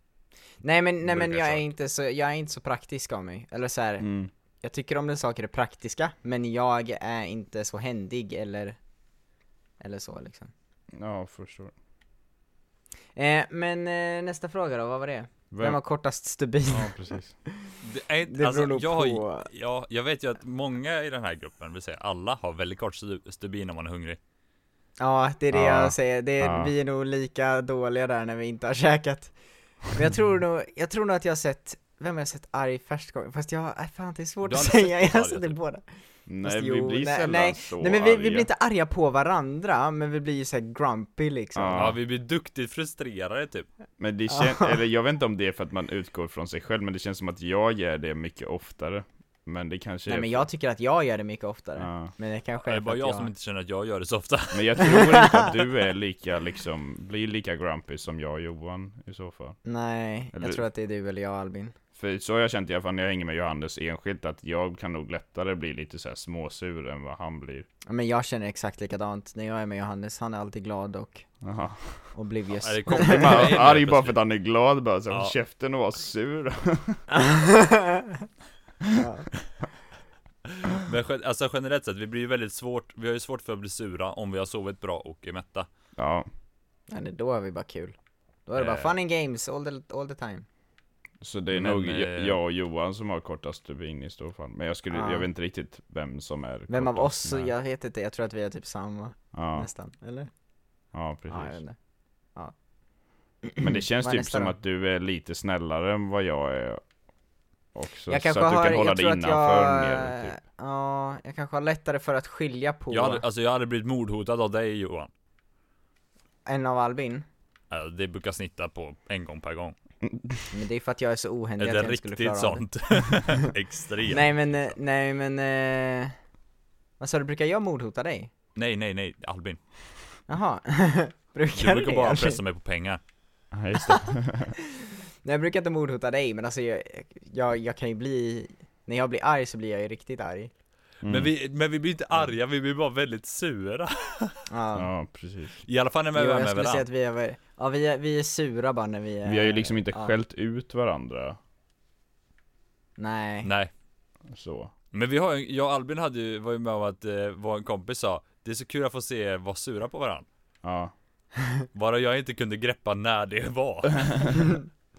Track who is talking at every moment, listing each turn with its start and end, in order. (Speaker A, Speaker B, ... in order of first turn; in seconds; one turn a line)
Speaker A: 0.6-4.1
Speaker B: 1.1-1.5
Speaker B: 4.0-4.3
Speaker A: 4.6-8.8
Speaker A: 9.8-10.5
Speaker B: 10.9-11.7
Speaker A: 13.2-17.8
Speaker B: 15.5-15.8
Speaker B: 16.7-17.4
Speaker C: 17.8-24.2
Speaker A: 18.3-19.5
Speaker A: 25.0-35.8
Speaker B: 25.5-26.7
Speaker C: 34.5-35.6
Speaker B: 36.3-38.5
Speaker A: 36.4-41.9
Speaker B: 41.5-42.0
Speaker C: 41.8-43.7
Speaker B: 44.0-50.5
Speaker A: 44.3-44.7
Speaker A: 50.1-53.3
Speaker B: 51.8-52.1
Speaker C: 52.6-54.7
Speaker B: 54.5-59.6
Speaker A: 54.8-55.5
Speaker A: 59.6-61.7
Speaker B: 60.4-60.6
Speaker B: 62.0-67.7
Speaker A: 67.9-71.3
Speaker B: 71.4-72.1
Speaker A: 72.1-73.6
Speaker C: 72.6-74.2
Speaker B: 72.9-77.0
Speaker C: 75.1-75.3
Speaker A: 77.1-78.3
Speaker A: 79.0-79.3
Speaker C: 80.7-85.7
Speaker B: 86.0-86.3
Speaker A: 86.9-88.0
Speaker A: 88.5-90.5
Speaker C: 88.6-88.9
Speaker B: 91.2-97.5
Speaker C: 91.5-92.4
Speaker A: 94.9-95.3
Speaker A: 96.7-100.3
Speaker B: 99.3-99.7
Speaker B: 100.9-101.6
Speaker A: 101.3-101.8
Speaker A: 103.5-104.5
Speaker B: 103.6-106.8
Speaker B: 107.7-110.4
Speaker A: 108.1-113.2
Speaker C: 112.9-115.1
Speaker A: 116.5-117.2
Speaker C: 117.7-119.8
Speaker B: 120.1-120.5
Speaker A: 120.5-123.2
Speaker C: 121.6-124.7
Speaker A: 124.1-126.1
Speaker A: 127.0-128.3
Speaker C: 128.6-129.6
Speaker A: 130.3-132.4
Speaker C: 131.5-133.0
Speaker B: 133.5-134.5
Speaker A: 135.2-140.5
Speaker B: 141.0-141.3
Speaker C: 141.1-144.4
Speaker A: 144.5-144.9
Speaker B: 144.8-145.6
Speaker C: 145.6-146.8
Speaker A: 146.1-150.1
Speaker B: 149.2-151.4
Speaker A: 153.0-153.5
Speaker C: 153.4-153.7
Speaker B: 154.3-154.7
Speaker C: 154.9-160.3
Speaker B: 160.6-160.9
Speaker C: 161.7-164.3